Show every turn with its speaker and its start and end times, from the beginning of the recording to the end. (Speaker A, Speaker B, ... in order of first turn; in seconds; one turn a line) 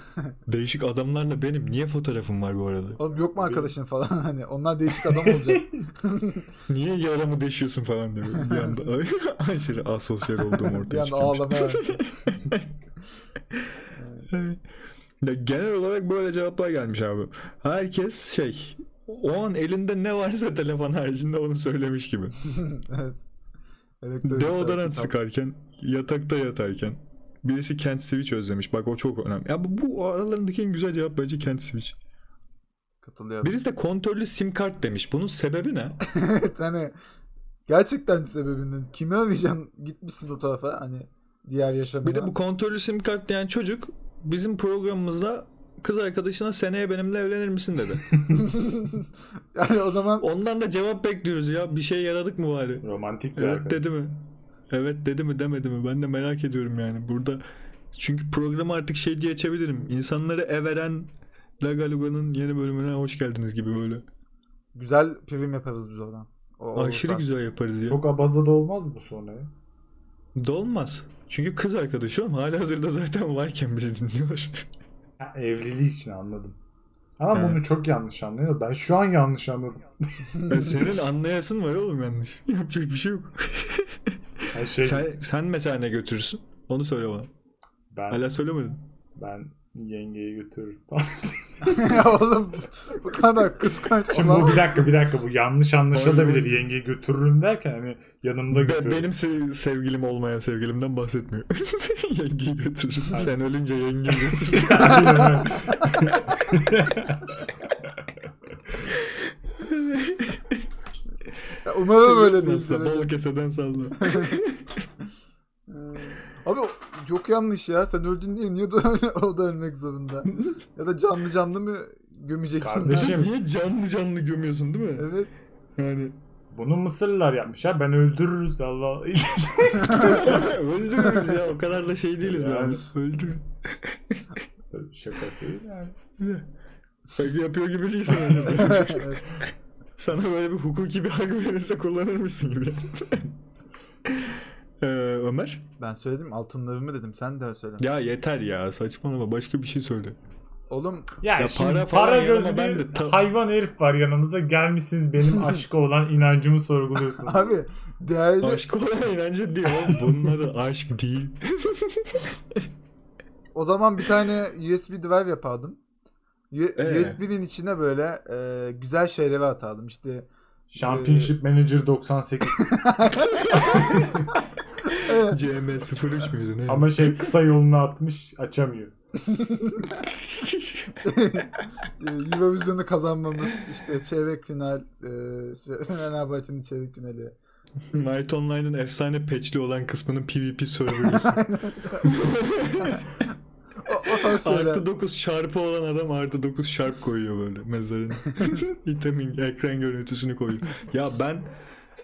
Speaker A: 0.5-3.0
Speaker B: 3.0-6.5
Speaker C: 3.4-3.7
Speaker C: 5.1-5.8
Speaker A: 6.7-12.7
Speaker B: 8.4-8.8
Speaker B: 10.6-12.1
Speaker B: 13.9-14.3
Speaker A: 14.3-14.6
Speaker A: 15.2-22.4
Speaker B: 22.4-23.2
Speaker B: 24.0-25.1
Speaker A: 24.2-32.0
Speaker B: 33.0-33.5
Speaker A: 33.4-36.0
Speaker B: 36.0-36.9
Speaker B: 37.7-42.3
Speaker A: 42.0-48.1
Speaker B: 48.3-50.2
Speaker A: 50.2-52.8
Speaker C: 52.8-53.8
Speaker A: 53.4-57.4
Speaker A: 57.9-61.1
Speaker A: 61.6-64.0
Speaker B: 64.7-67.3
Speaker A: 66.7-68.0
Speaker C: 67.9-69.5
Speaker A: 70.3-74.7
Speaker C: 75.2-76.6
Speaker C: 77.2-80.8
Speaker A: 77.3-77.6
Speaker A: 80.5-87.3
Speaker C: 84.5-85.1
Speaker C: 87.9-88.2
Speaker A: 88.1-88.8
Speaker C: 89.2-92.1
Speaker B: 91.6-94.8
Speaker C: 94.1-99.1
Speaker A: 95.9-96.6
Speaker A: 98.5-106.4
Speaker C: 103.1-103.4
Speaker C: 104.3-108.0
Speaker A: 108.9-110.7
Speaker B: 111.6-113.1
Speaker A: 111.9-114.8
Speaker B: 114.0-114.4
Speaker B: 115.7-123.2
Speaker C: 122.6-123.3
Speaker A: 122.9-125.1
Speaker B: 125.0-125.3
Speaker A: 125.8-126.1
Speaker C: 126.5-130.5
Speaker A: 129.9-134.3
Speaker C: 132.2-132.8
Speaker C: 134.7-135.9
Speaker A: 136.2-136.5
Speaker A: 137.2-143.3
Speaker B: 138.5-139.2
Speaker A: 144.0-145.6
Speaker B: 145.8-147.8
Speaker A: 147.8-150.2
Speaker B: 150.7-151.1
Speaker C: 151.2-157.6
Speaker A: 151.4-153.2
Speaker B: 157.2-158.7
Speaker A: 158.4-162.7
Speaker B: 163.5-165.8
Speaker B: 166.5-171.3
Speaker A: 166.8-167.2
Speaker C: 170.7-172.9
Speaker B: 172.6-174.1
Speaker A: 173.3-174.2
Speaker C: 173.5-174.2
Speaker B: 174.8-175.4
Speaker A: 174.8-177.3
Speaker C: 176.7-178.9
Speaker B: 179.2-180.0
Speaker A: 180.1-181.0
Speaker B: 181.0-187.3
Speaker A: 187.9-193.1
Speaker B: 191.1-192.2
Speaker B: 193.8-194.8
Speaker A: 193.9-201.5